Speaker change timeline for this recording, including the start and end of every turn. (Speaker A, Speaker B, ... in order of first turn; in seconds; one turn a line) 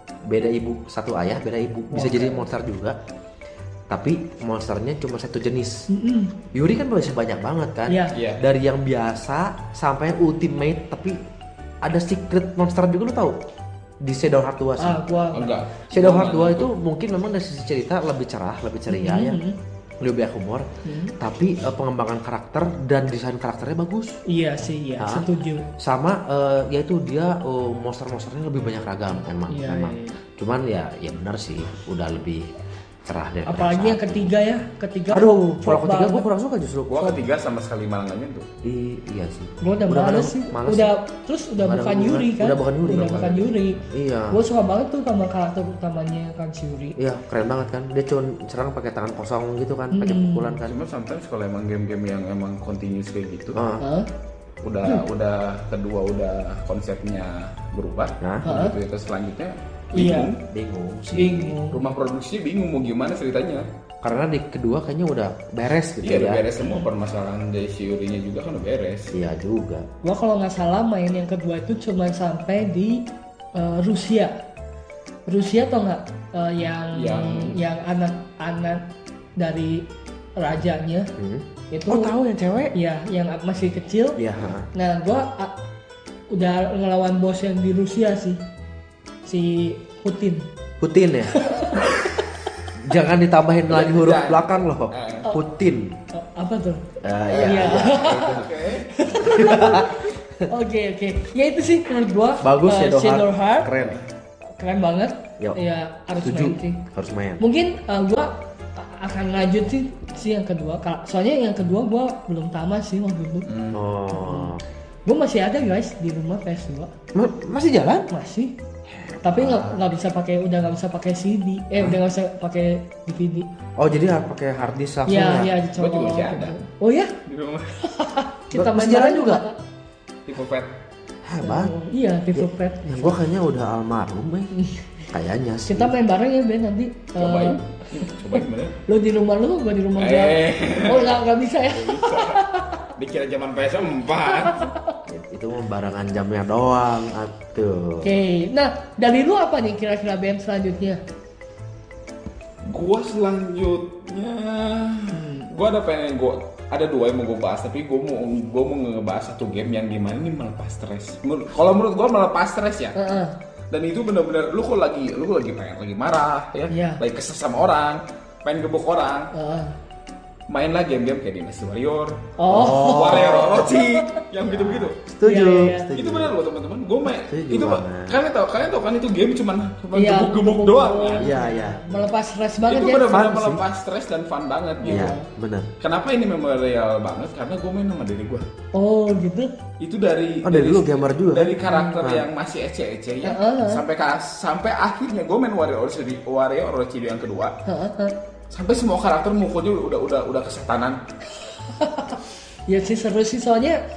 Speaker A: 0.2-3.0
Speaker B: 1.9-2.4
Speaker A: 3.9-5.9
Speaker B: 5.9-6.3
Speaker A: 6.5-11.2
Speaker B: 7.9-8.1
Speaker C: 8.1-8.4
Speaker A: 11.8-13.4
Speaker A: 14.0-15.0
Speaker B: 14.8-15.5
Speaker C: 15.3-16.7
Speaker A: 15.9-19.4
Speaker B: 18.9-19.6
Speaker A: 20.0-20.7
Speaker B: 20.8-21.1
Speaker A: 21.2-24.2
Speaker B: 24.2-25.7
Speaker A: 25.0-25.2
Speaker A: 25.8-32.5
Speaker B: 29.5-30.2
Speaker A: 33.0-34.3
Speaker B: 33.5-36.3
Speaker A: 35.1-37.2
Speaker C: 36.9-38.5
Speaker A: 38.6-40.9
Speaker B: 39.6-43.8
Speaker A: 41.6-44.4
Speaker B: 44.3-47.0
Speaker A: 47.0-50.7
Speaker B: 49.9-50.6
Speaker C: 50.7-53.6
Speaker A: 53.5-53.8
Speaker B: 53.8-54.1
Speaker C: 54.6-60.4
Speaker A: 58.2-58.5
Speaker B: 58.4-58.7
Speaker B: 59.9-60.3
Speaker A: 60.5-61.6
Speaker B: 61.1-61.8
Speaker C: 61.7-63.6
Speaker A: 64.0-66.4
Speaker C: 66.0-69.1
Speaker A: 69.1-69.8
Speaker B: 70.0-74.3
Speaker B: 75.3-78.9
Speaker C: 76.9-77.6
Speaker B: 79.4-79.8
Speaker B: 80.4-81.1
Speaker A: 81.2-82.7
Speaker B: 81.7-82.1
Speaker B: 82.7-84.2
Speaker A: 84.2-84.7
Speaker B: 84.7-85.5
Speaker B: 86.3-88.4
Speaker B: 89.2-90.4
Speaker A: 90.8-91.4
Speaker B: 91.3-91.9
Speaker A: 92.8-96.0
Speaker C: 93.7-95.3
Speaker B: 96.1-103.7
Speaker A: 97.0-98.5
Speaker C: 97.4-98.9
Speaker A: 99.1-100.4
Speaker A: 102.4-104.0
Speaker C: 103.8-104.0
Speaker B: 104.6-106.8
Speaker A: 106.2-107.4
Speaker B: 107.4-113.5
Speaker C: 113.5-113.8
Speaker A: 113.7-114.6
Speaker B: 114.1-114.5
Speaker B: 115.0-116.9
Speaker A: 117.1-118.1
Speaker B: 118.1-118.5
Speaker A: 118.9-119.8
Speaker B: 119.2-123.5
Speaker A: 123.8-125.5
Speaker B: 125.1-127.1
Speaker C: 125.8-126.6
Speaker C: 127.2-127.7
Speaker B: 127.8-129.6
Speaker A: 128.5-129.4
Speaker C: 130.2-130.7
Speaker A: 131.2-131.7
Speaker B: 131.4-133.1
Speaker A: 132.3-134.5
Speaker B: 134.5-134.9
Speaker A: 135.1-135.9
Speaker B: 135.7-138.1
Speaker C: 137.2-138.8
Speaker B: 138.9-142.9
Speaker C: 140.0-142.4
Speaker C: 142.9-144.7
Speaker B: 144.4-145.0
Speaker A: 145.1-148.1
Speaker B: 148.0-151.0
Speaker C: 152.6-163.0
Speaker B: 155.1-155.5
Speaker B: 162.9-163.3
Speaker C: 163.7-169.3
Speaker B: 166.7-167.0
Speaker B: 169.3-169.7
Speaker C: 170.5-175.0
Speaker B: 172.4-174.2
Speaker A: 172.5-173.7
Speaker A: 174.4-176.4
Speaker B: 175.2-175.9
Speaker C: 175.9-181.3
Speaker A: 177.1-178.2
Speaker B: 179.9-183.2
Speaker A: 181.2-182.0
Speaker C: 182.7-185.1
Speaker A: 183.1-183.6
Speaker B: 184.8-185.2
Speaker A: 184.9-185.7
Speaker C: 185.8-188.4
Speaker B: 188.7-189.5
Speaker C: 189.8-197.6
Speaker A: 190.4-192.3
Speaker B: 191.6-192.0
Speaker B: 193.2-193.8
Speaker B: 197.7-198.1
Speaker C: 198.5-201.0
Speaker B: 201.6-203.8